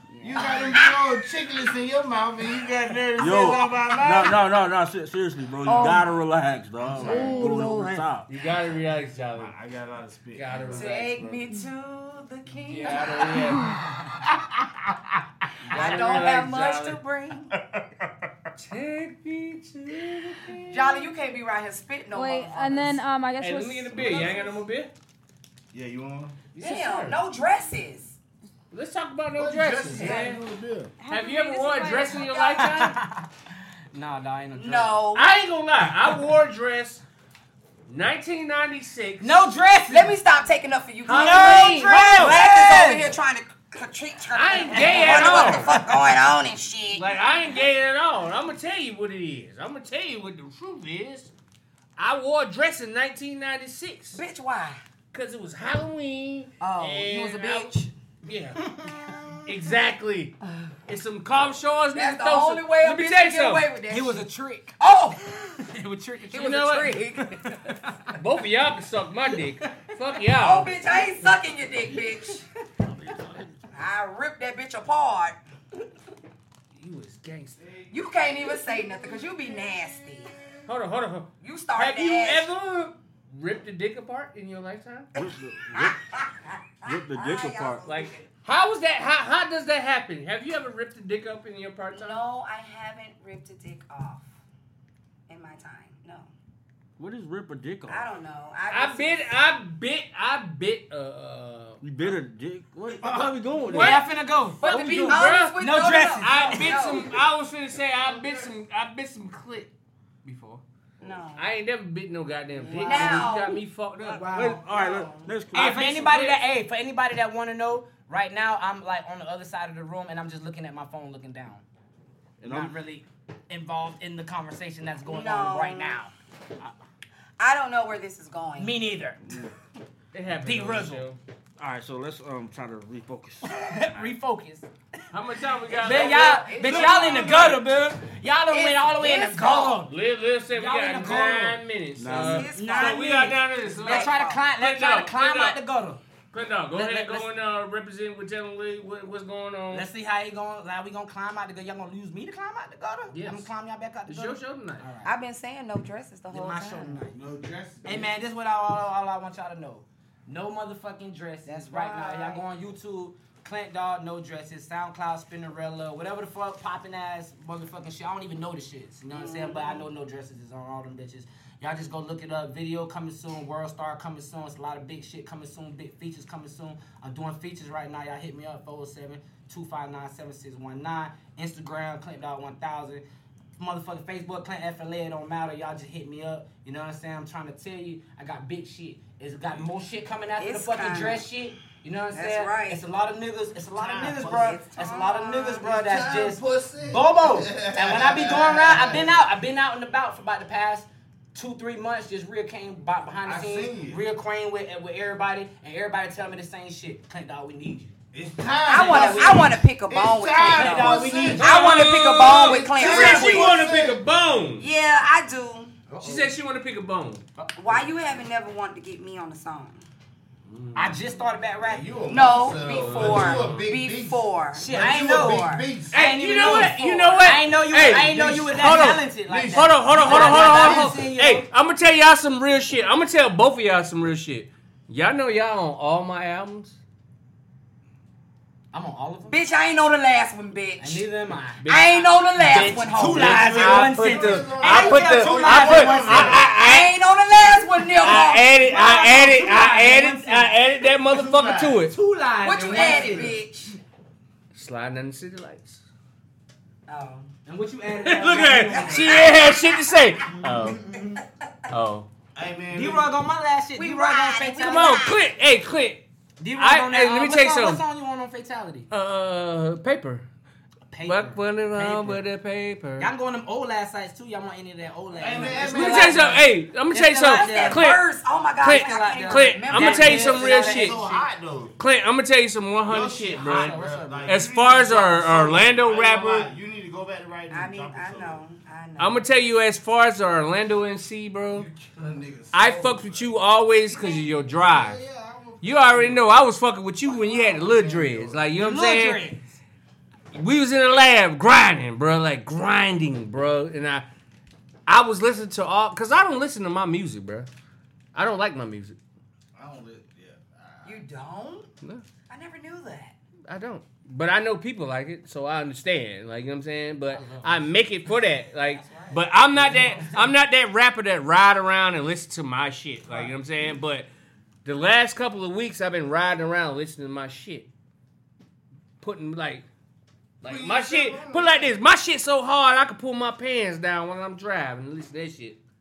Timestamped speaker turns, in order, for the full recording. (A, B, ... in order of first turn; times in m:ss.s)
0:00.2-0:04.4 A
0:00.4-0:01.2 B
0:03.2-0:08.3 C
0:05.6-0:06.2 B
0:06.8-0:07.6 A
0:07.0-0:09.5 D
0:07.2-0:07.5 B
0:09.3-0:11.4 A
0:10.4-0:11.3 D
0:10.7-0:13.6 B
0:12.7-0:13.8 D
0:14.6-0:15.9 A
0:15.6-0:17.0 D
0:15.7-0:17.5 B
0:17.5-0:18.4 A
0:18.6-0:21.1 D
0:20.7-0:23.0 B
0:22.2-0:24.3 E
0:23.4-0:24.9 D
0:24.0-0:24.4 A
0:25.7-0:26.4 A
0:26.5-0:27.2 D
0:26.6-0:28.2 B
0:28.7-0:30.4 D
0:29.4-0:30.9 A
0:30.0-0:30.4 B
0:31.0-0:32.3 E
0:31.1-0:33.0 D
0:32.1-0:32.6 B
0:32.6-0:33.3 F
0:33.9-0:35.0 F
0:34.6-0:35.3 B
0:35.1-0:37.0 D
0:37.9-0:39.4 D
0:39.2-0:40.2 F
0:39.9-0:47.2 B
0:41.0-0:42.4 D
0:41.1-0:43.2 F
0:44.3-0:45.8 D
0:44.5-0:45.8 F
0:46.9-0:51.3 D
0:52.0-0:54.2 D
0:54.1-0:54.8 B
0:55.1-0:57.7 D
0:56.6-0:57.9 B
0:58.2-0:58.7 D
0:58.7-0:59.4 F
0:59.5-1:03.7 D
1:01.9-1:05.6 B
1:03.9-1:04.8 F
1:05.6-1:07.8 F
1:06.3-1:08.2 B
1:06.4-1:06.9 D
1:08.2-1:10.8 D
1:09.6-1:09.9 F
1:10.4-1:12.5 B
1:12.8-1:13.6 C
1:13.7-1:15.4 B
1:16.8-1:17.7 D
1:17.6-1:17.9 A
1:17.9-1:20.4 B
1:20.7-1:25.1 D
1:21.4-1:22.5 B
1:25.2-1:26.0 C
1:25.7-1:28.3 B
1:26.8-1:27.9 C
1:27.9-1:32.2 D
1:31.9-1:34.3 B
1:35.3-1:36.3 B
1:37.0-1:38.1 C
1:37.9-1:39.3 B
1:38.7-1:41.8 D
1:41.8-1:44.1 C
1:43.0-1:47.1 F
1:43.6-1:44.1 D
1:44.6-1:47.2 B
1:44.6-1:49.7 D
1:47.9-1:48.5 A
1:50.2-1:50.6 D
1:51.0-1:51.5 B
1:51.4-1:54.3 D
1:52.6-1:53.3 F
1:52.6-1:55.4 B
1:54.1-1:54.7 F
1:54.3-1:56.3 C
1:55.5-2:01.6 F
1:55.5-1:56.4 D
2:02.4-2:02.8 C
2:02.4-2:06.1 F
2:05.1-2:06.0 B
2:07.4-2:08.9 B
2:08.6-2:09.4 F
2:10.1-2:11.2 D
2:10.4-2:11.1 F
2:11.6-2:14.2 C
2:13.4-2:14.7 F
2:15.1-2:17.6 D
2:15.7-2:17.8 B
2:15.7-2:19.9 F
2:18.5-2:19.8 B
2:19.9-2:25.6 D
2:20.5-2:21.6 F
2:22.0-2:22.5 C
2:22.2-2:24.5 B
2:22.5-2:26.0 F
2:26.3-2:29.9 D
2:26.7-2:27.3 F
2:29.7-2:35.1 F
2:33.1-2:33.5 D
2:34.1-2:34.9 D
2:35.0-2:37.1 B
2:36.3-2:37.2 F
2:37.1-2:38.1 A
2:37.8-3:03.0 F
2:41.5-2:42.5 B
2:49.1-2:49.9 B
3:03.6-3:28.0 F
3:10.4-3:11.3 B
3:12.1-3:12.8 B
3:13.7-3:14.6 A
3:14.4-3:15.6 B
3:15.6-3:19.2 A
3:23.2-3:24.0 A
3:28.1-3:34.0 A
3:28.7-3:33.7 B
3:28.7-3:29.4 F
3:30.4-3:31.8 F
3:31.3-3:34.7 D
3:34.6-3:35.8 B
3:36.0-3:37.3 D
3:36.0-3:36.3 F
3:37.5-3:39.8 B
3:40.5-3:41.0 D
3:40.8-3:42.1 F
3:41.7-3:46.0 A
3:42.1-3:45.7 B
3:42.7-3:43.7 D
3:44.6-3:51.5 F
3:45.9-3:56.8 D
3:46.3-3:47.4 B
3:47.8-3:51.1 A
3:58.7-3:59.4 F
3:59.3-4:01.1 B
4:00.8-4:01.6 F
4:01.6-4:07.0 D
4:01.7-4:03.7 B
4:02.5-4:06.4 F
4:03.1-4:06.5 A
4:06.2-4:08.6 B
4:08.0-4:11.9 D
4:08.6-4:10.6 F
4:11.0-4:11.9 A
4:11.9-4:13.4 F
4:12.4-4:13.8 B
4:12.7-4:13.4 A
4:14.5-4:15.8 D
4:16.9-4:17.3 B
4:17.5-4:19.3 F
4:18.0-4:20.8 D
4:18.4-4:20.1 B
4:20.4-4:21.2 A
4:21.7-4:22.1 D
4:22.4-4:23.2 A
4:22.7-4:25.0 F
4:23.8-4:25.3 B
4:24.6-4:26.0 D
4:26.4-4:28.9 F
4:26.6-4:27.8 D
4:28.9-4:30.3 D
4:30.9-4:32.2 F
4:31.0-4:33.1 D
4:33.0-4:38.0 F
4:35.1-4:36.4 A
4:35.4-4:38.0 D
4:37.2-4:40.7 B
4:38.6-4:41.0 D
4:38.6-4:41.3 F
4:40.5-4:41.8 A
4:41.8-4:46.5 D
4:42.8-4:48.4 A
4:43.4-4:44.4 F
4:47.5-4:49.2 B
4:49.0-4:51.7 D
4:51.5-4:53.4 A
4:52.5-4:55.0 D
4:53.9-4:54.3 B
4:54.6-4:56.3 A
4:55.6-4:59.2 D
4:57.1-4:58.4 A
4:58.6-4:59.6 F
5:00.3-5:04.1 D
5:04.9-5:07.5 D
5:08.2-5:09.0 D
5:09.6-5:11.0 A
5:10.8-5:11.7 B
5:12.3-5:13.2 B
5:13.5-5:24.1 D
5:17.1-5:18.2 F
5:18.8-5:19.2 B
5:19.5-5:20.3 F
5:23.1-5:23.4 F
5:24.6-5:27.7 D
5:29.0-5:29.7 D
5:30.4-5:35.6 D
5:30.4-5:31.8 A